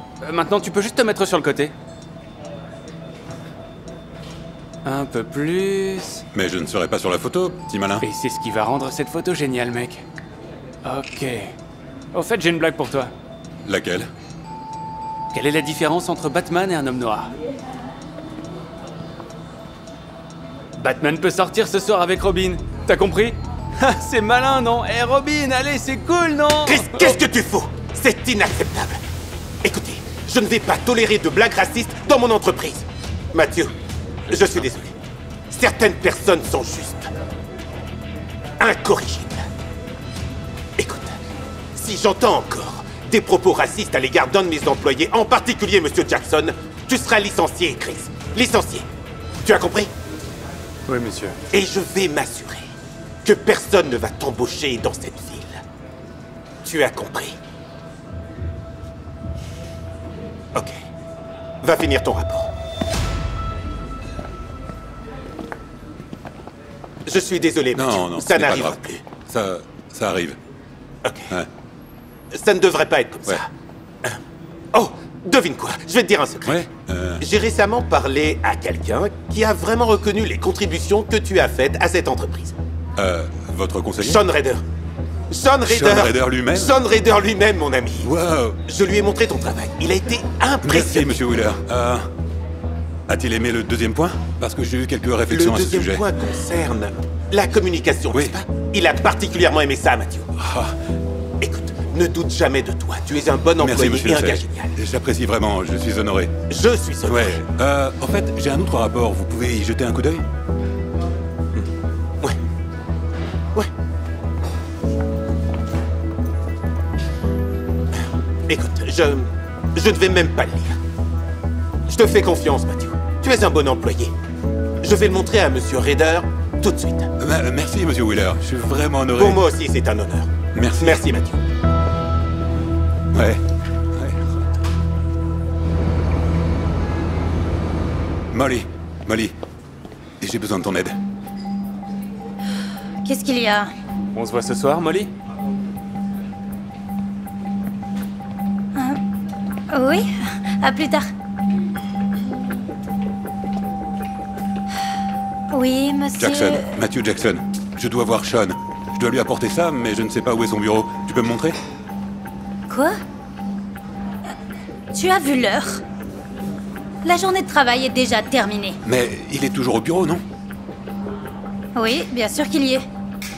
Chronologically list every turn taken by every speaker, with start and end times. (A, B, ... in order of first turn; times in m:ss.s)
0:00.2-0:01.7 A
0:04.8-0:06.2 A
0:06.3-0:08.0 B
0:08.0-0:10.0 A
0:10.8-0:11.6 A
0:12.1-0:13.1 A
0:13.6-0:14.1 B
0:15.3-0:17.3 A
0:20.8-0:27.2 A
0:26.6-0:29.0 C
0:29.6-0:33.8 C
0:34.3-0:34.9 C
0:35.5-0:37.1 C
0:38.6-0:39.5 C
0:40.8-0:41.2 C
0:41.7-0:48.9 C
0:49.4-0:49.9 C
0:50.9-0:51.4 A
0:51.5-0:52.7 C
0:53.2-0:55.6 C
0:56.6-0:57.4 C
1:01.6-1:02.5 C
1:07.0-1:09.0 C
1:07.7-1:10.4 B
1:11.0-1:11.3 C
1:12.3-1:13.5 C
1:14.7-1:16.6 C
1:16.4-1:17.2 B
1:17.2-1:22.6 C
1:23.0-1:24.2 B
1:24.0-1:24.6 C
1:25.3-1:28.1 C
1:25.6-1:26.8 B
1:28.0-1:28.6 B
1:28.6-1:31.2 C
1:30.6-1:32.1 B
1:33.1-1:36.0 B
1:35.3-1:40.3 C
1:38.1-1:38.4 B
1:40.4-1:40.7 B
1:41.4-1:44.7 C
1:43.6-1:46.3 B
1:46.5-1:47.4 C
1:47.0-1:50.2 B
1:58.5-2:00.8 C
2:01.9-2:04.1 C
2:04.8-2:07.1 C
2:07.2-2:09.4 B
2:09.1-2:11.4 C
2:10.5-2:11.0 B
2:13.1-2:13.4 B
2:13.9-2:14.3 B
2:18.3-2:19.3 B
2:20.2-2:21.0 B
2:23.0-2:23.7 D
2:24.1-2:25.1 A
2:28.7-2:29.0 D
2:29.7-2:31.1 D
2:35.5-2:36.6 D
2:36.2-2:41.6 B
2:42.7-2:43.0 D
2:44.9-2:45.8 D
2:47.0-2:48.8 D
2:48.8-2:50.2 B
2:51.7-2:52.8 D